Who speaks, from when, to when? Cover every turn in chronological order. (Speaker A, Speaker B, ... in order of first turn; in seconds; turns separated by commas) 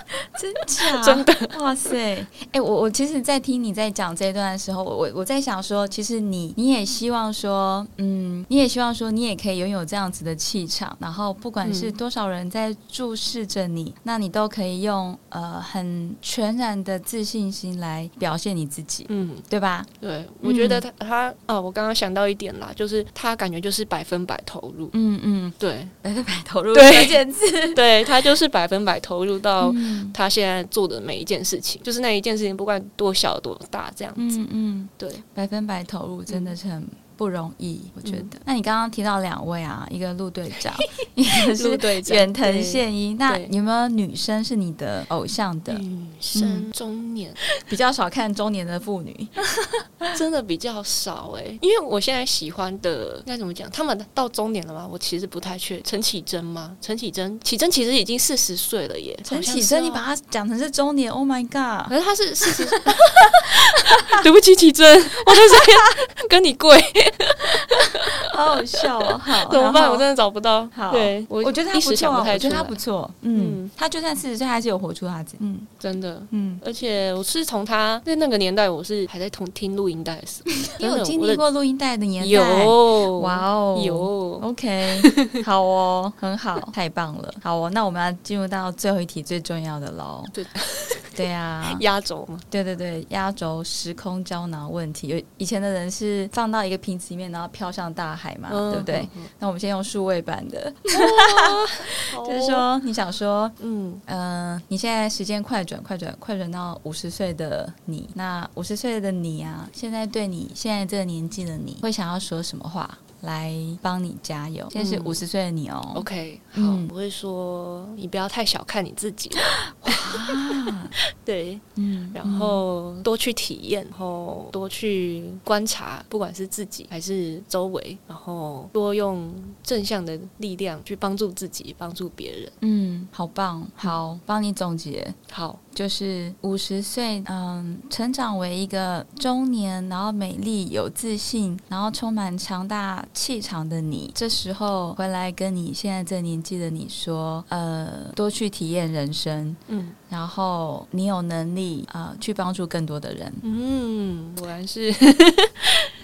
Speaker A: 0.3-19.9, Speaker B: 1.0-1.5, Speaker B: 11.6-12.0, Speaker B: 19.1-19.4, Speaker B: 20.0-24.9, Speaker A: 20.4-20.8, Speaker A: 24.9-28.1, Speaker B: 25.6-25.9, Speaker B: 26.7-27.2, Speaker B: 27.7-34.4, Speaker A: 29.6-30.1, Speaker A: 34.1-45.8, Speaker B: 36.3-36.5, Speaker B: 41.4-43.5, Speaker B: 45.7-47.4, Speaker A: 46.3-46.7, Speaker A: 47.6-50.1, Speaker B: 50.1-60.1, Speaker A: 59.2-63.2, Speaker B: 61.9-63.1, Speaker B: 64.1-68.8, Speaker A: 65.3-65.8, Speaker A: 68.3-70.0, Speaker B: 69.3-72.8, Speaker A: 70.7-75.7, Speaker B: 73.3-73.7, Speaker B: 75.8-81.4, Speaker A: 76.3-76.6, Speaker A: 80.7-90.3, Speaker B: 82.2-84.5, Speaker B: 90.3-92.5, Speaker A: 91.2-91.8, Speaker A: 92.5-116.9, Speaker B: 98.5-99.3, Speaker B: 100.9-102.7, Speaker B: 103.6-104.0, Speaker B: 114.7-115.2, Speaker B: 115.9-120.6, Speaker A: 119.8-120.9, Speaker B: 121.2-132.5, Speaker A: 121.8-122.6, Speaker A: 132.6-135.2, Speaker B: 135.3-135.6, Speaker A: 135.7-153.4, Speaker B: 149.7-150.0, Speaker B: 153.4-155.9